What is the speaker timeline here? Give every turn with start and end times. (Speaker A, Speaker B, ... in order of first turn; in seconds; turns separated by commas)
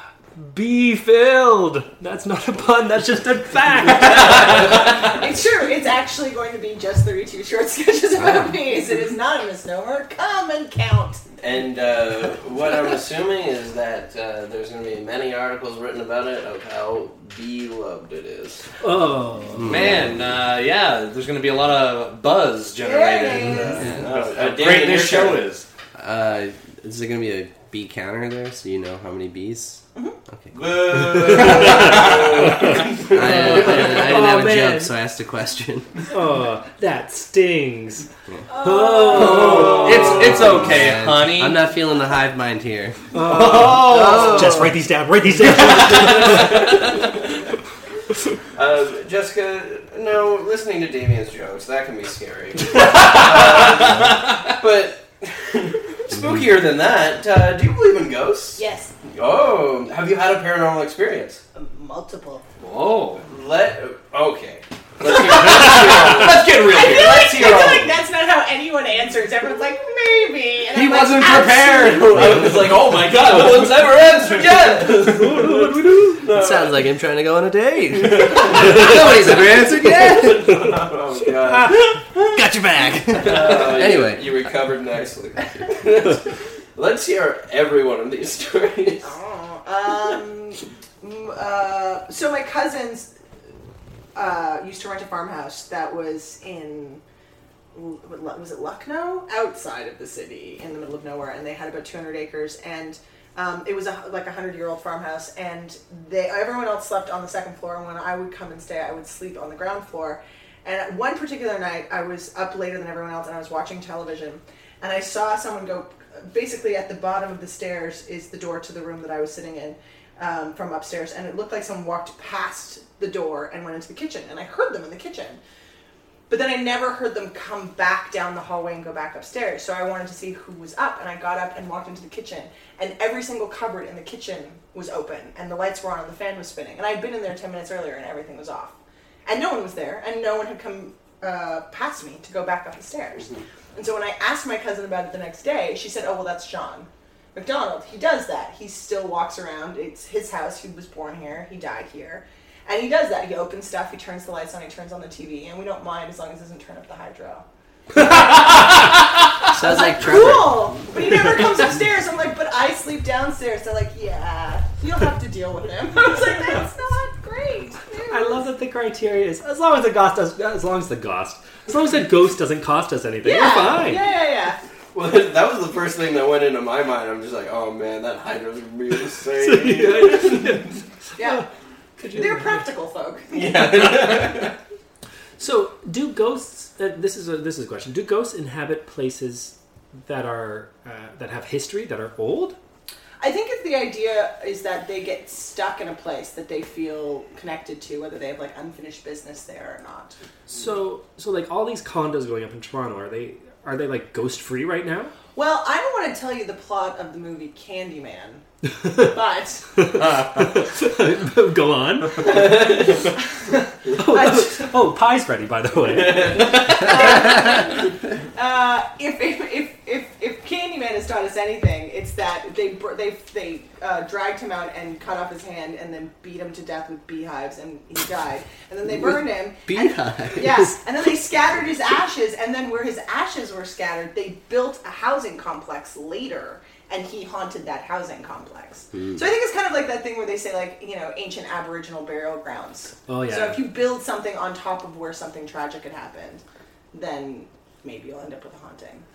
Speaker A: 0.4-4.5, Speaker B: 4.2-11.2, Speaker C: 11.4-18.6, Speaker A: 18.8-19.7, Speaker D: 19.6-20.2, Speaker E: 19.6-25.7, Speaker B: 22.8-23.9, Speaker D: 23.7-24.0, Speaker C: 23.8-25.4, Speaker D: 25.9-30.5, Speaker C: 30.5-33.8, Speaker E: 31.6-32.3, Speaker D: 33.0-35.9, Speaker A: 33.2-34.9, Speaker A: 36.1-40.4, Speaker B: 38.5-40.1, Speaker E: 39.1-41.6, Speaker C: 39.7-40.5, Speaker D: 40.1-43.0, Speaker A: 43.1-46.7, Speaker E: 43.2-44.6, Speaker D: 43.7-44.7, Speaker C: 48.5-61.4, Speaker E: 52.9-54.1, Speaker B: 58.6-58.9, Speaker B: 61.5-62.4, Speaker E: 62.6-63.2, Speaker C: 63.2-67.9, Speaker E: 65.3-67.8, Speaker B: 66.5-72.2, Speaker E: 70.7-74.3, Speaker C: 71.9-76.8, Speaker D: 72.2-72.5, Speaker A: 74.9-76.2, Speaker D: 76.3-80.5, Speaker C: 77.9-82.2, Speaker D: 82.3-84.5, Speaker C: 83.1-86.2, Speaker C: 86.8-89.1, Speaker B: 89.0-93.1, Speaker B: 94.1-97.0, Speaker B: 97.7-125.4, Speaker B: 126.3-138.7, Speaker B: 139.2-159.0, Speaker B: 159.5-168.4, Speaker D: 159.5-160.7, Speaker A: 168.1-174.0, Speaker B: 173.2-174.6, Speaker C: 174.9-180.6, Speaker A: 179.4-181.4, Speaker B: 181.2-181.4, Speaker A: 182.0-182.6, Speaker B: 182.1-183.3, Speaker C: 183.3-184.5, Speaker A: 185.4-192.6, Speaker B: 193.2-200.1, Speaker A: 200.5-205.1, Speaker B: 205.3-208.4, Speaker A: 208.8-209.1, Speaker B: 209.0-209.6, Speaker A: 209.8-212.4, Speaker E: 210.0-210.4, Speaker B: 212.2-212.6, Speaker C: 212.2-213.0, Speaker A: 213.9-216.7, Speaker B: 214.1-214.6, Speaker C: 215.9-216.9, Speaker B: 216.6-249.0, Speaker D: 228.9-230.7, Speaker A: 243.1-243.7